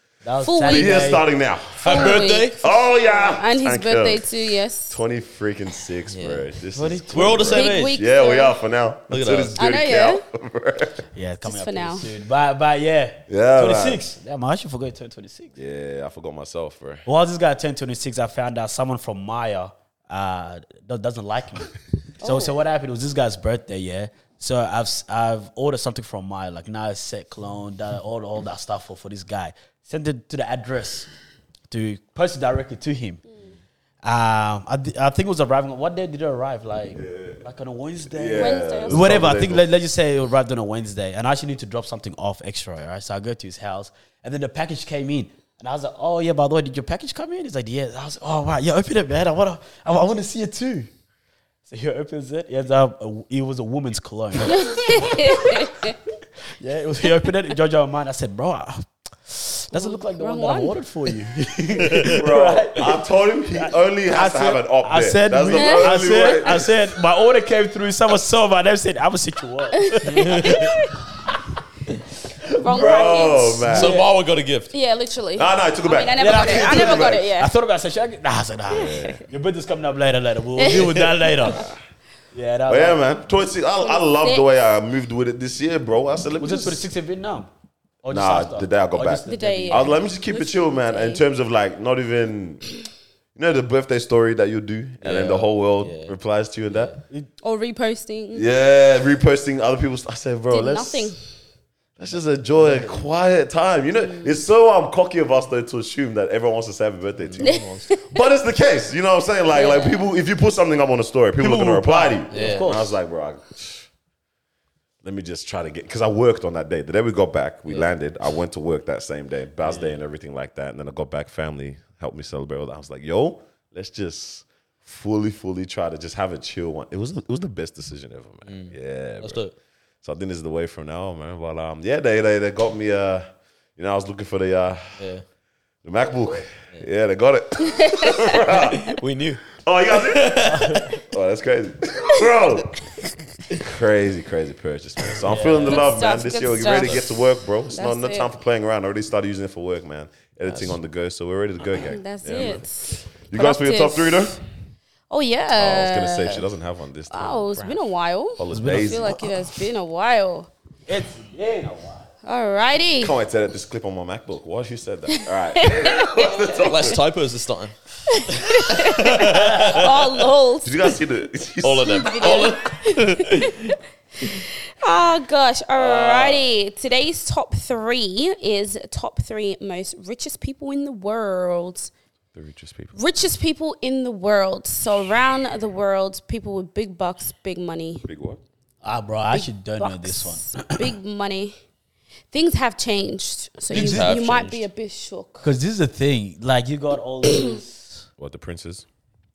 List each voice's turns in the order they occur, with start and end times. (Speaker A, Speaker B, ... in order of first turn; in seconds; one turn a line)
Speaker A: 0.2-1.2
Speaker B: 0.4-1.2
Speaker C: 0.7-4.2
Speaker B: 1.8-5.0
Speaker D: 1.8-2.6
Speaker C: 4.9-11.0
Speaker D: 6.1-6.5
Speaker A: 6.7-7.4
Speaker D: 7.1-8.0
Speaker B: 7.5-8.6
Speaker D: 9.1-9.6
Speaker B: 9.5-10.2
Speaker A: 11.1-15.5
Speaker B: 11.4-12.1
Speaker C: 13.3-14.0
Speaker C: 15.6-17.1
Speaker A: 17.1-31.1
Speaker B: 22.2-22.5
Speaker A: 31.7-33.2
Speaker A: 34.0-50.9
Speaker C: 36.9-37.4
Speaker C: 38.1-39.7
Speaker B: 38.3-39.3
Speaker A: 51.7-55.7
Speaker B: 54.5-55.9
Speaker A: 56.6-62.9
Speaker B: 59.7-60.8
Speaker D: 61.9-62.2
Speaker C: 62.0-66.7
Speaker A: 63.5-70.8
Speaker B: 65.5-65.9
Speaker B: 69.9-70.9
Speaker D: 70.2-70.6
Speaker B: 72.6-73.8
Speaker C: 72.6-74.0
Speaker D: 73.6-74.7
Speaker A: 73.7-74.1
Speaker B: 74.7-77.5
Speaker C: 75.3-77.2
Speaker A: 76.2-81.7
Speaker C: 78.7-79.2
Speaker B: 78.8-79.2
Speaker B: 80.6-81.0
Speaker A: 82.3-83.0
Speaker C: 82.7-86.8
Speaker B: 83.8-84.5
Speaker A: 86.4-87.5
Speaker A: 88.0-90.0
Speaker C: 88.1-92.6
Speaker B: 89.2-91.2
Speaker C: 93.3-96.9
Speaker D: 95.0-96.1
Speaker D: 96.7-97.0
Speaker B: 97.4-98.5
Speaker C: 98.3-101.1
Speaker B: 100.5-101.2
Speaker C: 102.0-113.9
Speaker A: 102.5-103.1
Speaker B: 104.0-104.4
Speaker B: 107.4-108.2
Speaker B: 109.5-110.0
Speaker A: 111.4-112.9
Speaker D: 112.3-112.7
Speaker C: 115.0-129.4
Speaker D: 128.5-129.5
Speaker C: 130.0-135.0
Speaker D: 135.0-135.2
Speaker C: 135.8-138.9
Speaker B: 137.6-138.4
Speaker D: 138.5-141.0
Speaker C: 139.6-142.8
Speaker A: 140.5-140.9
Speaker C: 143.6-154.4
Speaker A: 145.2-145.8
Speaker B: 145.7-147.1
Speaker B: 147.7-148.3
Speaker D: 150.5-150.8
Speaker B: 151.7-154.3
Speaker B: 155.1-156.4
Speaker C: 155.5-157.8
Speaker B: 157.1-160.5
Speaker C: 158.4-159.2
Speaker A: 158.5-159.3
Speaker A: 160.9-162.1
Speaker B: 162.2-163.1
Speaker C: 163.0-167.0
Speaker B: 165.1-166.7
Speaker D: 166.6-167.7
Speaker B: 168.1-171.0
Speaker D: 168.4-170.2
Speaker C: 170.6-172.5
Speaker D: 171.6-173.7
Speaker B: 171.9-181.9
Speaker C: 175.8-176.4
Speaker C: 182.3-183.0
Speaker B: 182.9-188.0
Speaker C: 188.0-188.4
Speaker A: 188.8-190.8
Speaker B: 189.3-191.6
Speaker B: 192.3-195.5
Speaker D: 193.7-194.6
Speaker A: 193.7-194.2
Speaker A: 195.4-198.1
Speaker C: 198.2-198.8